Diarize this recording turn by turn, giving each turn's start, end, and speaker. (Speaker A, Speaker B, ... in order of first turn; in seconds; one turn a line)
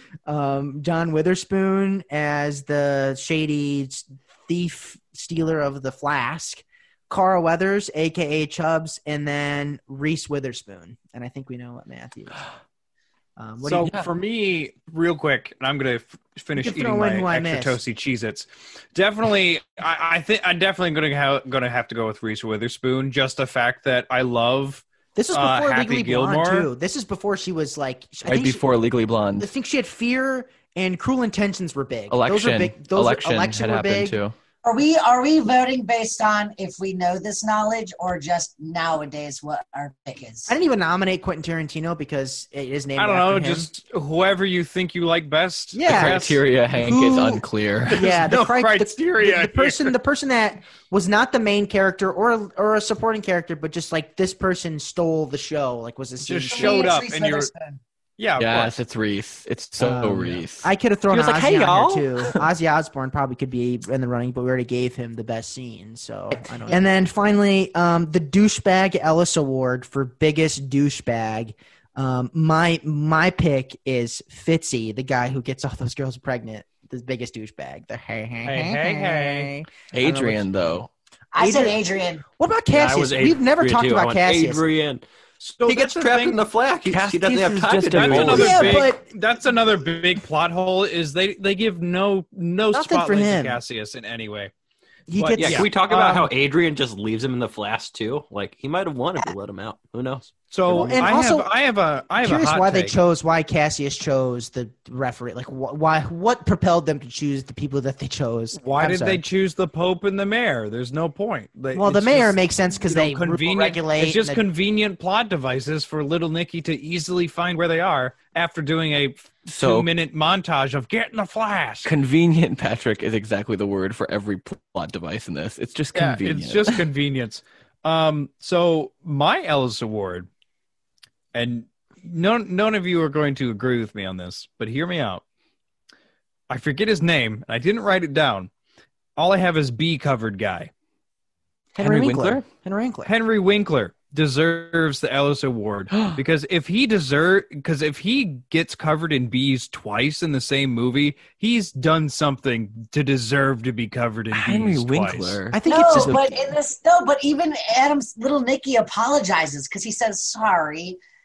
Speaker A: 0.3-12.4
Speaker A: 13.4-13.9
Speaker B: 13.6-26.7
Speaker A: 16.6-17.8
Speaker A: 25.1-28.7
Speaker C: 28.2-29.5
Speaker A: 29.4-34.2
Speaker C: 32.1-34.4
Speaker D: 34.6-40.5
Speaker A: 40.5-43.7
Speaker B: 43.0-46.4
Speaker A: 45.7-47.4
Speaker C: 45.9-48.2
Speaker B: 47.9-49.9
Speaker A: 47.9-56.9
Speaker B: 56.2-57.5
Speaker D: 56.5-57.8
Speaker B: 58.2-58.8
Speaker C: 58.4-62.4
Speaker A: 59.8-80.6
Speaker B: 78.4-79.5
Speaker C: 79.9-80.9
Speaker D: 81.3-82.2
Speaker A: 81.4-81.8
Speaker A: 82.4-84.6
Speaker E: 82.7-85.0
Speaker B: 85.4-86.4
Speaker E: 85.6-88.6
Speaker C: 86.9-88.9
Speaker B: 87.9-94.5
Speaker A: 88.3-89.0
Speaker A: 92.7-93.6
Speaker A: 95.1-96.3
Speaker B: 95.2-95.7
Speaker E: 95.3-101.1
Speaker B: 100.5-103.0
Speaker A: 100.7-101.5
Speaker A: 102.2-109.2
Speaker B: 108.5-121.9
Speaker A: 111.7-114.4
Speaker C: 119.5-119.9
Speaker C: 121.8-126.8
Speaker B: 125.9-130.3
Speaker B: 131.3-135.2
Speaker B: 136.5-138.5
Speaker B: 139.2-140.7
Speaker A: 141.7-143.1
Speaker C: 141.8-142.4
Speaker B: 143.1-155.4
Speaker C: 145.9-146.2
Speaker C: 154.3-156.2
Speaker A: 155.5-156.4
Speaker D: 155.7-161.0